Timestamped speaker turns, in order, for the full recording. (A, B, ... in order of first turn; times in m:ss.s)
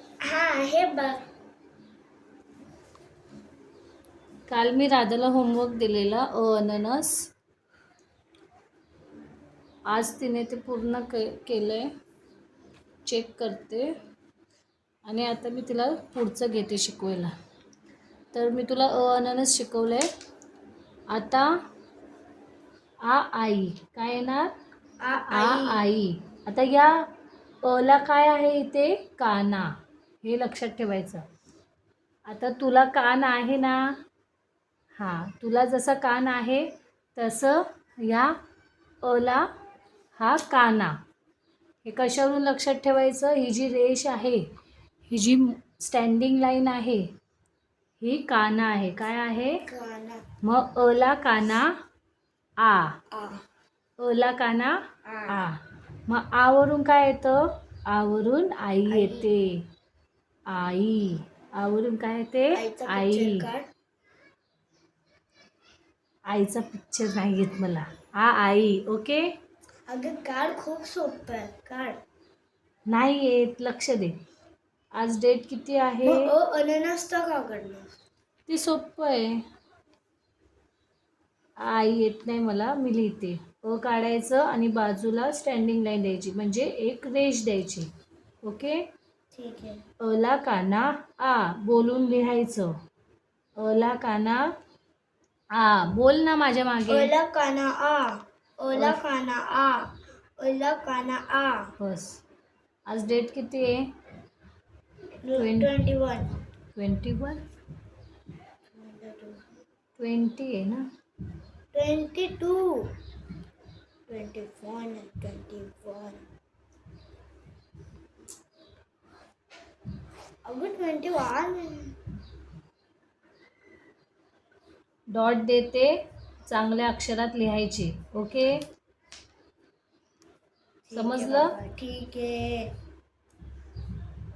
0:00.2-0:01.2 A
0:04.5-0:07.2 B
0:09.9-0:11.9 B
0:13.0-0:13.9 B
0:15.0-0:17.3 B
0:18.3-0:20.0 B
0:21.1-0:21.4 B
0:23.0-0:24.5 B
0:25.0-0:25.8 A
0:25.3-0:27.0 B
0:27.6-0:29.7 B
0:30.2-0:31.2 B
0:32.3-0:33.8 B
0:35.0-0:38.3 B
0:39.0-0:39.4 B
0:40.2-0:41.0 B
0:41.8-0:44.4 B
0:45.1-0:47.0 B
0:48.0-0:49.6 B
0:49.7-0:50.2 A
0:50.4-0:51.7 B
0:52.6-0:53.0 B
0:53.1-0:53.4 A
0:54.0-0:54.8 B
0:55.0-0:55.4 A
0:55.3-0:59.6 B
0:58.8-0:59.3 A
1:00.5-1:03.4 B
1:02.5-1:03.7 A
1:06.3-1:09.3 B
1:09.9-1:11.9 A
1:12.9-1:14.1 B
1:15.0-1:16.3 B
1:16.0-1:17.9 A
1:18.5-1:19.4 B
1:21.6-1:27.9 B
1:28.4-1:28.8 B
1:29.3-1:29.8 A
1:30.0-1:32.7 B
1:33.6-1:34.4 B
1:35.5-1:37.1 B
1:36.9-1:41.7 A
1:41.8-1:42.2 B
1:42.9-1:43.8 B
1:45.2-1:46.3 A
1:45.4-1:45.7 B
1:46.8-1:47.4 B
1:48.7-1:49.4 A
1:50.0-1:50.8 B
1:51.7-1:52.9 A
1:54.1-1:56.2 A
2:00.4-2:02.0 A
2:05.1-2:05.9 B
2:06.5-2:08.5 B
2:10.9-2:12.6 A
2:10.9-2:11.5 B